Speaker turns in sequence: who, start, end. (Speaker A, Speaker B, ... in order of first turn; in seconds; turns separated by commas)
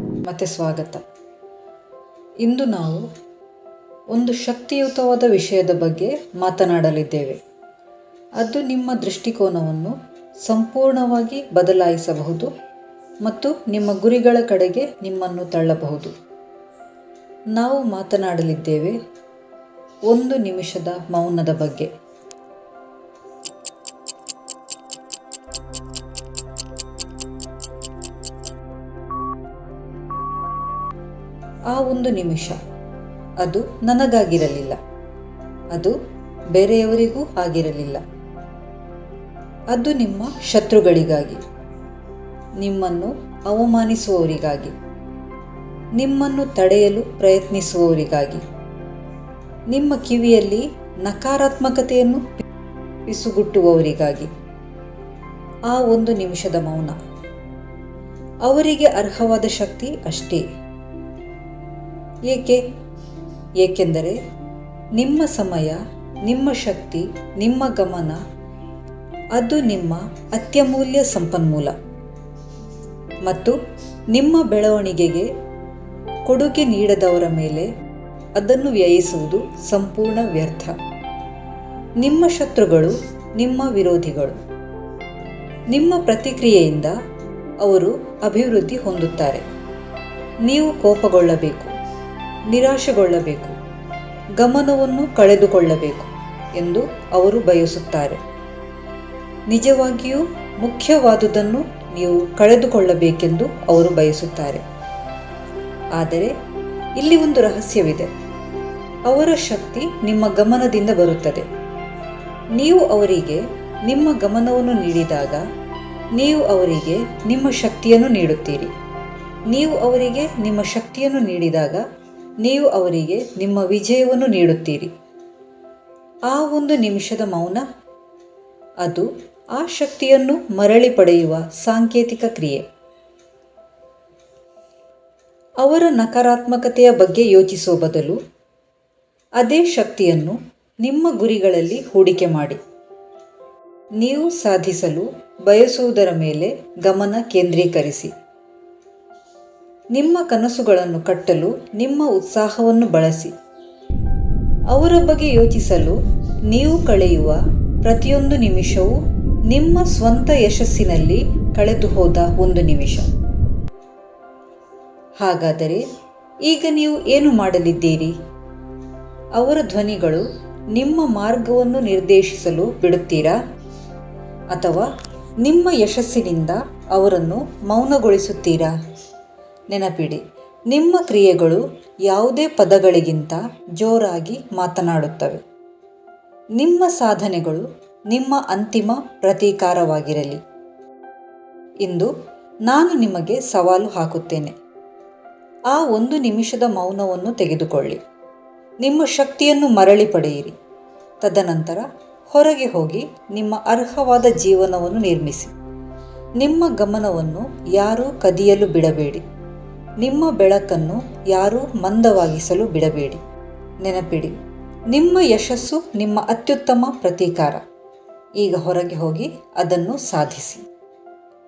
Speaker A: 0.2-1.0, Speaker A: 2.4-3.0, Speaker A: 4.1-7.4, Speaker A: 8.4-12.5, Speaker A: 13.2-16.1, Speaker A: 17.6-19.0, Speaker A: 20.1-21.9, Speaker A: 31.7-32.6, Speaker A: 33.4-34.8, Speaker A: 36.5-38.0, Speaker A: 39.7-41.4, Speaker A: 42.6-44.7, Speaker A: 46.0-48.4, Speaker A: 49.7-52.2, Speaker A: 53.1-54.3, Speaker A: 55.7-57.0, Speaker A: 58.5-60.4, Speaker A: 62.3-62.6, Speaker A: 63.6-64.2, Speaker A: 65.0-68.2, Speaker A: 69.3-71.7, Speaker A: 73.2-73.6, Speaker A: 74.1-75.3, Speaker A: 76.3-77.7, Speaker A: 78.4-80.7, Speaker A: 82.0-84.4, Speaker A: 85.7-86.9, Speaker A: 87.6-89.4, Speaker A: 90.4-91.7, Speaker A: 92.5-93.5, Speaker A: 94.4-98.2, Speaker A: 99.5-104.6, Speaker A: 106.0-106.3, Speaker A: 107.0-108.1, Speaker A: 109.1-111.5, Speaker A: 112.5-115.4, Speaker A: 116.1-118.7, Speaker A: 119.5-121.8, Speaker A: 122.4-124.9, Speaker A: 126.3-127.6, Speaker A: 128.8-132.6, Speaker A: 135.6-138.2, Speaker A: 139.4-142.6, Speaker A: 144.0-148.1, Speaker A: 149.9-153.3, Speaker A: 154.7-158.9, Speaker A: 159.5-163.1, Speaker A: 165.2-165.8, Speaker A: 166.4-168.1, Speaker A: 169.3-173.3, Speaker A: 174.5-174.9, Speaker A: 175.4-178.7, Speaker A: 179.7-185.4, Speaker A: 186.6-190.4, Speaker A: 191.8-192.1, Speaker A: 192.7-194.6, Speaker A: 195.7-198.0, Speaker A: 198.8-200.6, Speaker A: 201.2-205.5, Speaker A: 206.4-209.2, Speaker A: 210.0-213.2, Speaker A: 213.8-214.3, Speaker A: 214.9-217.6, Speaker A: 218.4-220.6